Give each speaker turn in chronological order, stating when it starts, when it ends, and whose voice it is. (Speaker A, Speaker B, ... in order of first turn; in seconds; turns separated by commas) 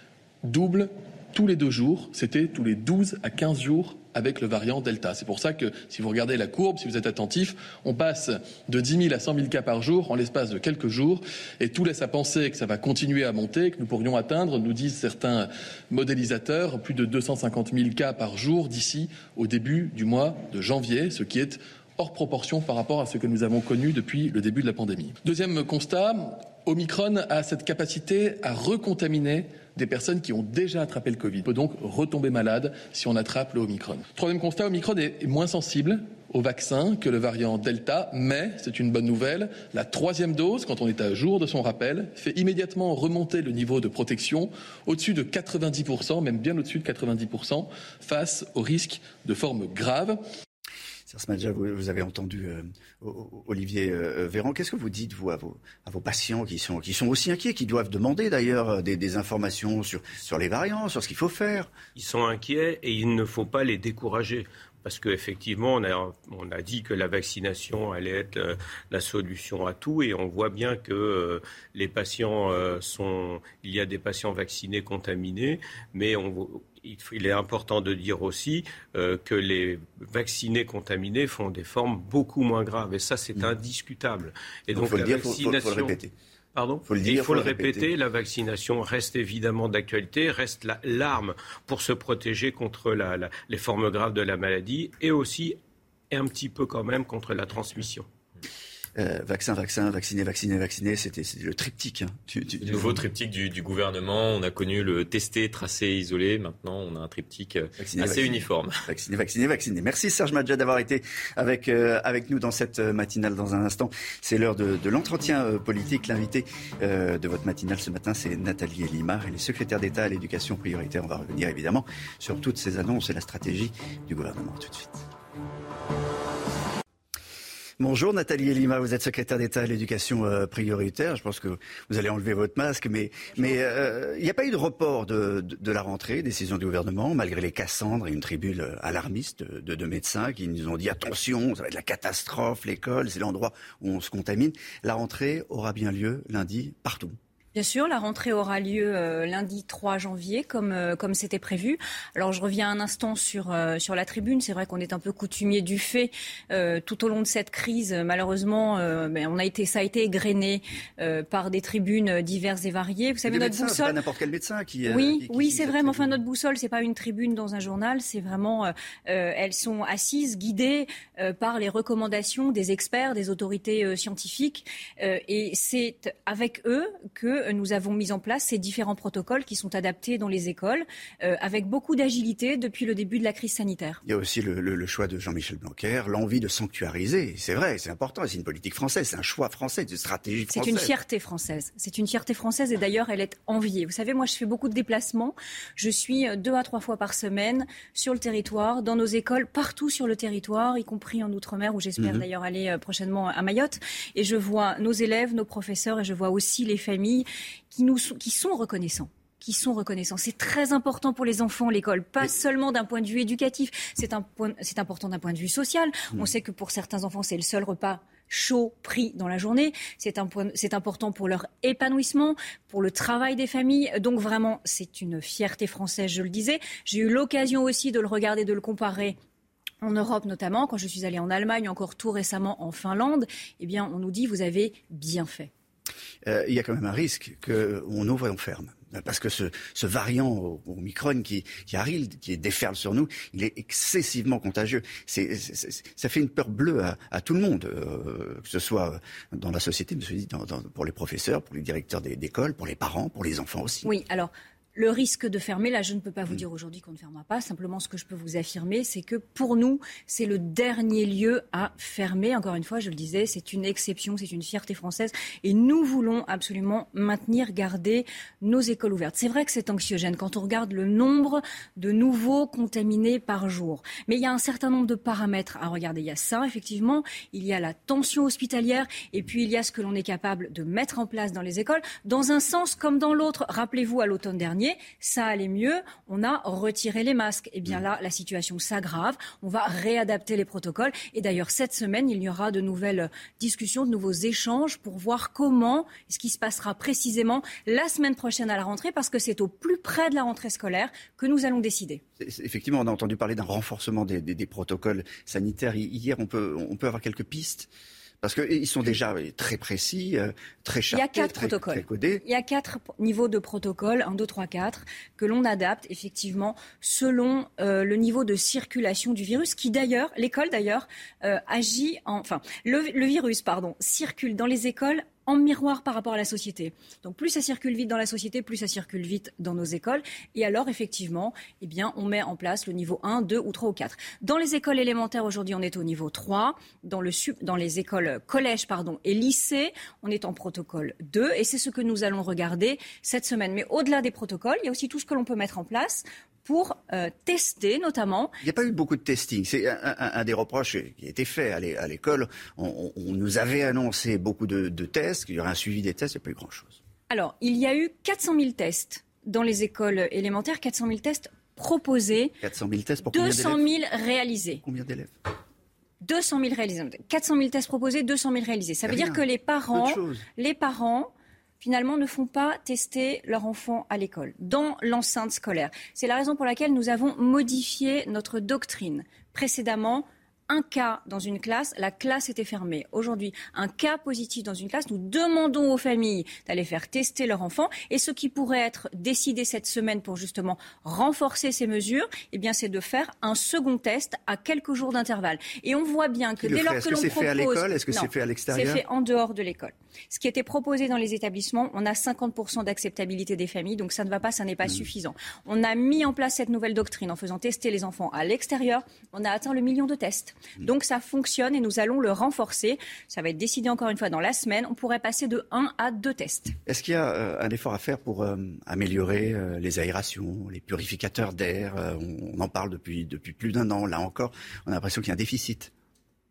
Speaker A: 0.4-50.2, Speaker B: 51.1-61.7, Speaker C: 61.9-86.0, Speaker B: 84.7-86.1, Speaker C: 86.5-95.6, Speaker B: 86.8-87.9, Speaker C: 96.1-98.1, Speaker B: 99.0-103.0, Speaker D: 102.6-108.7, Speaker B: 107.8-125.0, Speaker B: 127.8-147.2, Speaker E: 147.5-163.9, Speaker B: 163.2-166.2, Speaker E: 164.9-184.0, Speaker B: 184.0-190.9, Speaker E: 190.5-229.2, Speaker B: 202.0-202.2, Speaker E: 229.8-235.5, Speaker B: 236.2-253.9, Speaker E: 253.8-302.0, Speaker B: 302.2-307.7, Speaker B: 308.2-312.2, Speaker E: 310.9-348.3, Speaker B: 348.4-356.8, Speaker E: 357.1-362.3, Speaker B: 362.4-363.7, Speaker E: 363.1-364.6, Speaker B: 364.6-365.1, Speaker E: 366.0-371.1, Speaker B: 368.8-370.2, Speaker E: 371.6-416.5, Speaker B: 396.4-398.8, Speaker B: 416.6-425.7